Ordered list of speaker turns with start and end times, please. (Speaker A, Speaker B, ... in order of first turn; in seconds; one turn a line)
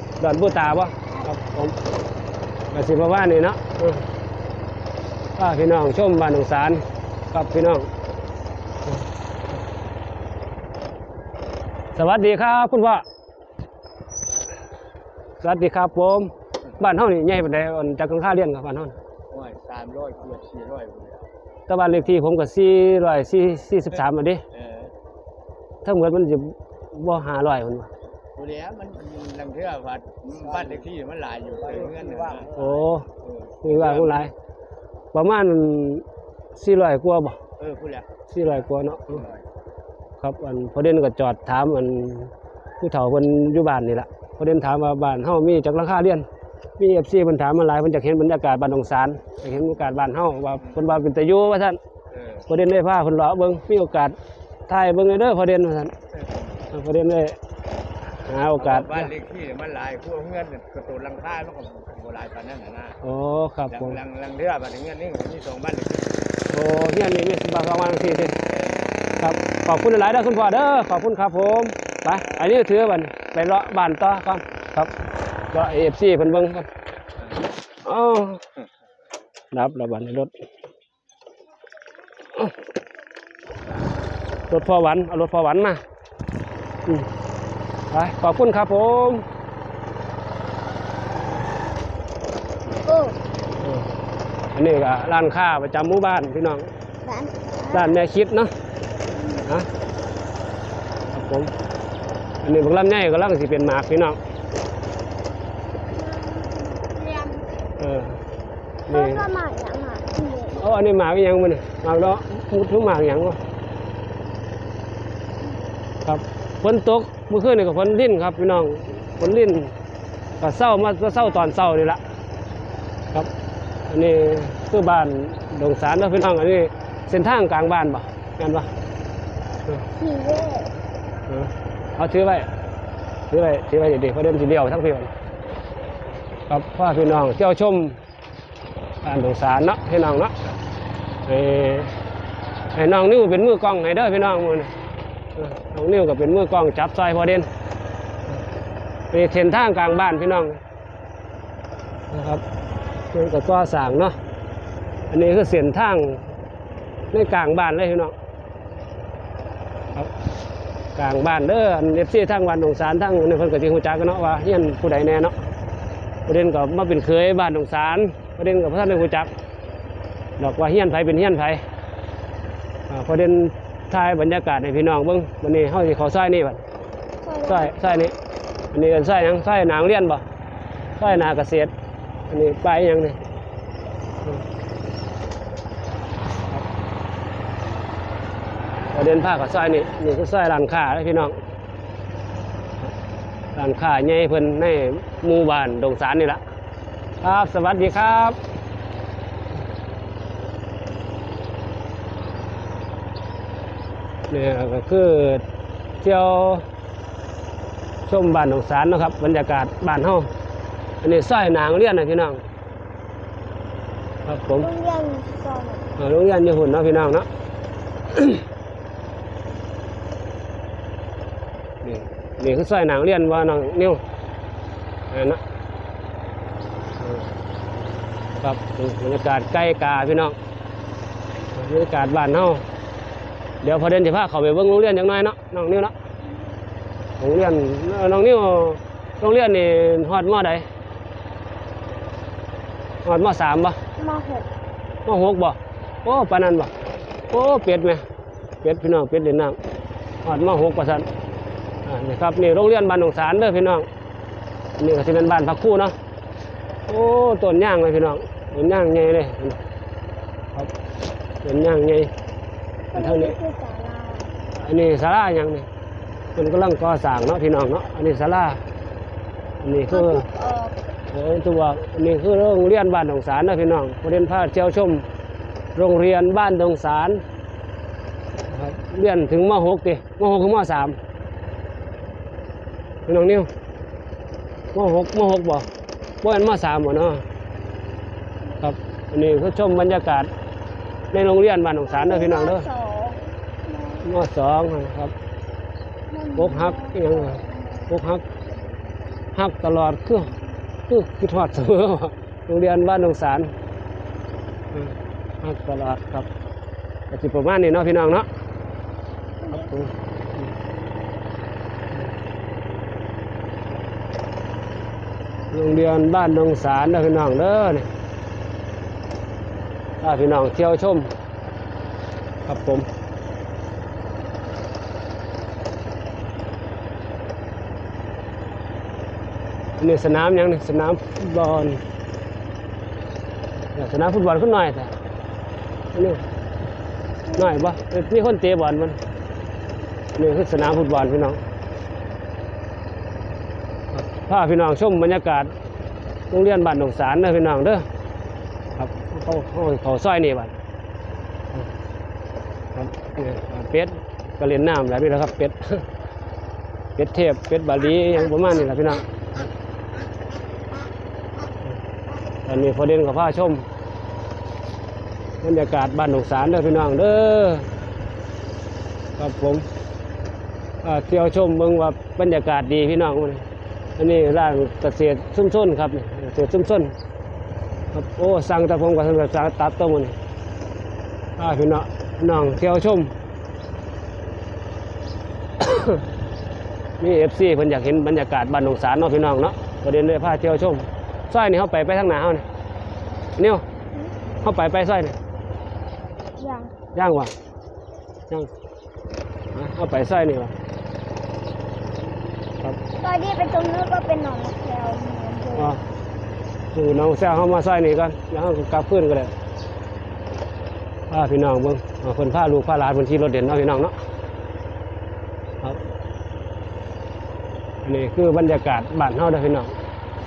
Speaker A: 0.2-1.8
Speaker A: 2.7-4.0
Speaker A: 5.4-7.9
Speaker A: 8.9-9.6
Speaker A: 12.0-13.0
Speaker A: 15.4-18.9
Speaker B: 19.3-21.3
Speaker A: 21.7-24.4
Speaker B: 24.5-24.9
Speaker A: 25.8-27.9
Speaker B: 28.4-34.3
Speaker A: 32.6-33.1
Speaker A: 33.6-34.3
Speaker A: 35.1-36.0
Speaker A: 36.6-37.4
Speaker B: 37.6-39.4
Speaker A: 38.3-39.2
Speaker A: 40.2-46.3
Speaker A: 46.8-51.8
Speaker B: 50.6-50.9
Speaker B: 52.1-52.5
Speaker A: 52.5-54.2
Speaker A: 54.7-55.9
Speaker B: 56.1-56.6
Speaker A: 56.7-57.4
Speaker A: 58.3-59.1
Speaker B: 58.6-63.0
Speaker A: 63.0-64.0
Speaker B: 63.7-66.2
Speaker A: 66.5-68.3
Speaker B: 68.5-68.8
Speaker A: 69.2-74.9
Speaker A: 75.5-76.7
Speaker A: 77.8-78.4
Speaker A: 79.5-80.3
Speaker A: 84.5-85.8
Speaker A: 87.9-89.2
Speaker C: 92.8-93.2
Speaker A: 93.6-93.9
Speaker A: 94.5-96.7
Speaker C: 97.0-98.0
Speaker A: 97.7-98.5
Speaker C: 99.1-99.5
Speaker A: 101.1-101.5
Speaker A: 102.4-104.2
Speaker C: 105.8-107.5
Speaker A: 107.8-108.2
Speaker C: 108.9-110.6
Speaker A: 108.9-109.2
Speaker A: 110.5-113.4
Speaker A: 116.0-119.7
Speaker A: 120.4-122.0
Speaker A: 123.9-128.7
Speaker C: 129.9-130.7
Speaker A: 131.3-132.5
Speaker A: 133.3-135.1
Speaker A: 136.5-138.0
Speaker A: 139.0-140.3
Speaker A: 141.3-141.9
Speaker A: 142.8-144.7
Speaker A: 145.4-147.5
Speaker A: 149.1-150.6
Speaker A: 152.1-152.4
Speaker A: 153.1-154.2
Speaker A: 155.1-156.3
Speaker A: 157.1-158.1
Speaker A: 161.0-165.3
Speaker A: 166.3-169.3
Speaker A: 170.4-171.6
Speaker A: 172.9-176.6
Speaker C: 177.2-177.8
Speaker A: 177.4-178.1
Speaker A: 178.7-180.2
Speaker A: 181.0-181.7
Speaker A: 182.3-183.2
Speaker A: 188.9-191.4
Speaker A: 193.6-196.4
Speaker A: 197.2-198.4
Speaker A: 204.3-205.4
Speaker A: 206.0-206.7
Speaker A: 208.1-210.3
Speaker A: 211.0-212.4
Speaker A: 214.3-214.7
Speaker C: 214.6-215.9
Speaker A: 216.0-217.3
Speaker A: 218.1-218.4
Speaker A: 221.8-224.0
Speaker A: 225.1-225.4
Speaker A: 227.0-227.3
Speaker A: 228.4-230.4
Speaker A: 231.6-232.7
Speaker A: 233.6-235.9
Speaker A: 237.2-240.7
Speaker A: 243.1-243.8
Speaker C: 244.0-244.5
Speaker A: 245.1-246.7
Speaker A: 247.3-248.0
Speaker A: 248.6-249.6
Speaker A: 250.2-251.1
Speaker A: 251.8-253.9
Speaker A: 254.8-256.0
Speaker A: 256.9-259.6
Speaker A: 261.4-262.1
Speaker C: 262.9-264.3
Speaker A: 262.9-263.4
Speaker A: 264.6-265.7
Speaker A: 266.4-268.6
Speaker A: 269.6-270.3
Speaker C: 269.9-270.8
Speaker A: 271.1-275.1
Speaker A: 275.8-277.2
Speaker A: 278.5-281.0
Speaker A: 283.1-283.5
Speaker A: 284.7-285.7
Speaker A: 286.2-287.2
Speaker A: 288.6-290.3
Speaker A: 291.1-292.7
Speaker C: 291.9-294.1
Speaker A: 294.0-295.1
Speaker C: 296.1-298.0
Speaker A: 296.4-298.2
Speaker A: 299.4-300.3
Speaker A: 300.9-303.5
Speaker A: 304.7-306.3
Speaker A: 307.1-308.3
Speaker C: 309.4-309.7
Speaker A: 309.5-310.5
Speaker A: 315.5-317.9
Speaker A: 320.0-321.1
Speaker A: 322.5-322.9
Speaker A: 329.8-331.8
Speaker A: 333.8-334.9
Speaker A: 335.9-336.2
Speaker C: 337.3-337.7
Speaker A: 337.4-339.0
Speaker A: 340.2-341.4
Speaker A: 343.9-345.5
Speaker A: 346.3-347.9
Speaker A: 348.8-350.6
Speaker A: 352.8-355.9
Speaker A: 357.0-359.5
Speaker A: 362.5-363.7
Speaker A: 365.4-367.7
Speaker A: 369.2-369.7
Speaker A: 370.8-373.4
Speaker A: 374.0-376.9
Speaker A: 377.9-380.2
Speaker A: 381.4-383.1
Speaker A: 385.6-386.0
Speaker A: 387.0-392.5
Speaker A: 393.4-393.6
Speaker A: 394.4-395.2
Speaker C: 396.4-396.7
Speaker A: 396.9-397.3
Speaker A: 399.5-400.5
Speaker C: 403.0-405.8
Speaker A: 405.6-405.8
Speaker A: 406.7-409.3
Speaker A: 411.1-413.9
Speaker A: 417.9-419.7